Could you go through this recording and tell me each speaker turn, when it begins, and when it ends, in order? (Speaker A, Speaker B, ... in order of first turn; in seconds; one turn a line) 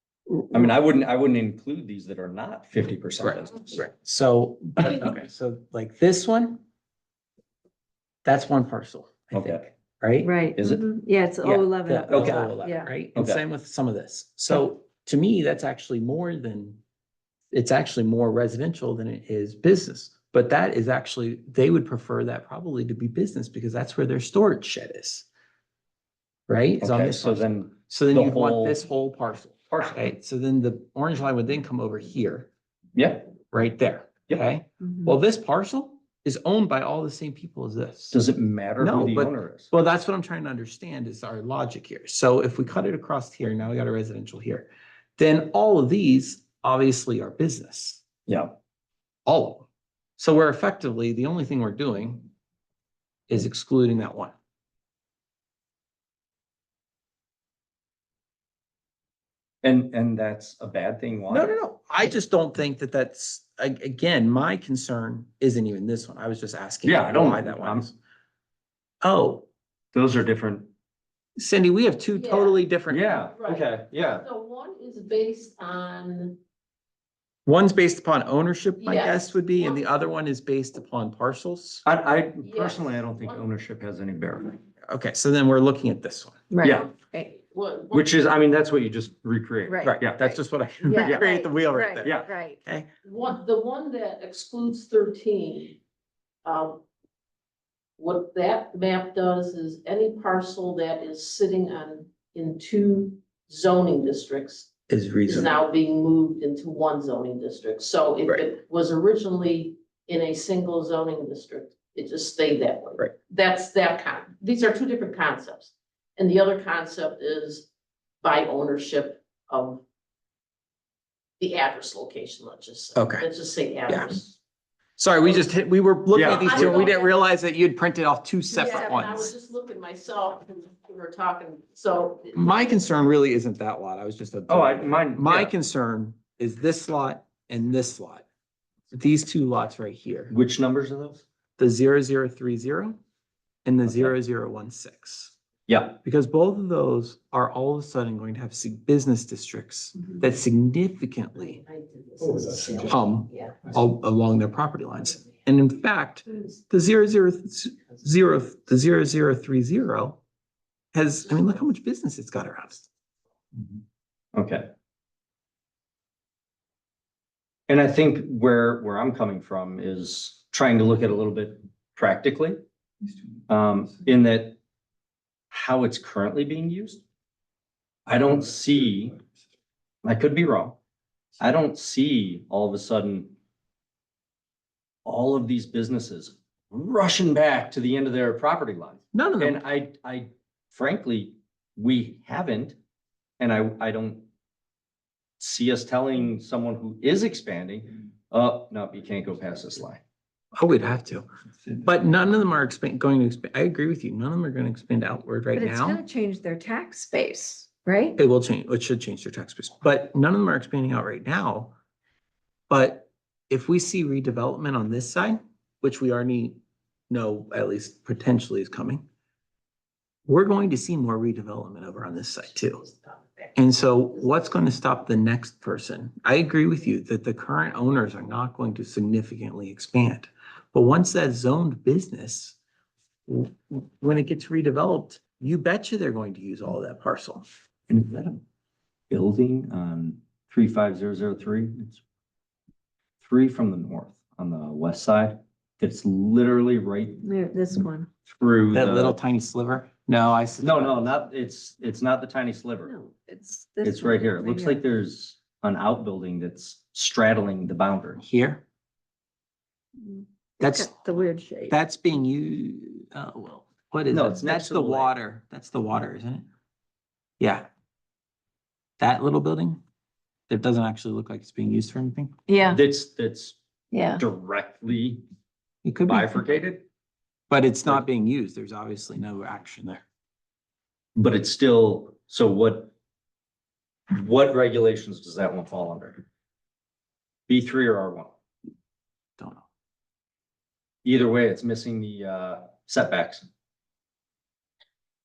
Speaker A: 0.3-0.7
Speaker B: 0.5-3.8
Speaker A: 3.2-6.6
Speaker A: 8.2-10.3
Speaker B: 9.3-9.7
Speaker C: 10.2-12.9
Speaker B: 10.6-10.9
Speaker A: 11.4-16.8
Speaker B: 12.1-12.5
Speaker B: 13.2-13.4
Speaker A: 17.5-25.3
Speaker A: 26.5-32.5
Speaker B: 26.8-28.8
Speaker B: 29.7-30.0
Speaker B: 33.0-33.3
Speaker A: 33.5-38.1
Speaker B: 38.1-39.7
Speaker A: 38.8-48.0
Speaker B: 48.3-48.5
Speaker A: 49.3-49.7
Speaker A: 50.2-52.3
Speaker A: 53.3-54.3
Speaker B: 59.6-61.5
Speaker A: 61.3-68.0
Speaker B: 66.8-67.9
Speaker A: 69.0-69.5
Speaker B: 69.9-70.7
Speaker A: 71.4-73.1
Speaker D: 72.1-72.6
Speaker B: 72.9-74.3
Speaker D: 73.4-76.4
Speaker A: 77.5-81.8
Speaker D: 78.8-80.0
Speaker B: 81.8-84.6
Speaker D: 82.4-83.5
Speaker A: 84.9-86.4
Speaker C: 86.5-87.3
Speaker B: 86.6-86.9
Speaker D: 86.6-88.2
Speaker B: 87.9-90.3
Speaker C: 89.7-92.6
Speaker A: 89.8-92.9
Speaker B: 90.9-91.3
Speaker B: 92.0-92.3
Speaker D: 93.0-95.8
Speaker D: 96.5-96.8
Speaker D: 98.0-104.7
Speaker A: 104.9-105.5
Speaker D: 105.3-117.7
Speaker D: 118.2-119.8
Speaker D: 121.4-124.4
Speaker A: 123.0-123.3
Speaker A: 123.9-124.2
Speaker A: 125.0-129.3
Speaker D: 125.2-125.5
Speaker B: 126.1-126.9
Speaker D: 126.2-127.2
Speaker D: 128.5-132.8
Speaker C: 128.6-129.3
Speaker A: 132.3-138.2
Speaker B: 134.5-135.5
Speaker A: 138.9-140.3
Speaker B: 140.3-141.2
Speaker A: 141.6-143.0
Speaker A: 143.7-145.4
Speaker B: 143.8-144.1
Speaker B: 145.7-146.0
Speaker A: 146.0-151.6
Speaker D: 151.4-153.7
Speaker A: 152.8-160.2
Speaker A: 160.9-162.9
Speaker B: 164.3-164.7
Speaker B: 167.7-172.6
Speaker B: 173.5-174.6
Speaker B: 175.5-177.0
Speaker B: 178.1-179.2
Speaker B: 180.0-180.8
Speaker B: 181.4-183.3
Speaker B: 185.1-192.8
Speaker A: 189.1-189.6
Speaker B: 193.4-194.3
Speaker B: 195.4-200.0
Speaker A: 200.6-206.0
Speaker C: 205.5-208.2
Speaker A: 208.2-211.7
Speaker A: 212.7-216.6
Speaker A: 217.1-219.0
Speaker A: 220.3-222.9
Speaker A: 223.6-232.6
Speaker A: 233.3-237.4
Speaker B: 237.9-238.4
Speaker B: 239.1-242.0
Speaker B: 243.2-247.2
Speaker C: 247.2-248.1
Speaker B: 248.3-249.2
Speaker A: 248.7-251.1
Speaker B: 250.6-252.9
Speaker C: 252.8-254.8
Speaker B: 253.8-258.2
Speaker A: 258.2-258.6
Speaker C: 260.0-261.8
Speaker A: 260.6-261.0
Speaker A: 261.7-266.4
Speaker B: 264.1-265.1
Speaker A: 267.4-267.7
Speaker A: 269.0-269.8
Speaker A: 270.5-272.4
Speaker C: 272.5-272.8
Speaker B: 272.6-273.6
Speaker C: 273.9-274.2
Speaker B: 274.2-275.2
Speaker A: 275.8-276.4
Speaker B: 276.1-276.9
Speaker A: 277.5-280.0
Speaker B: 281.1-282.9
Speaker B: 284.1-286.2
Speaker B: 287.5-288.3
Speaker A: 289.4-289.6
Speaker B: 291.1-293.5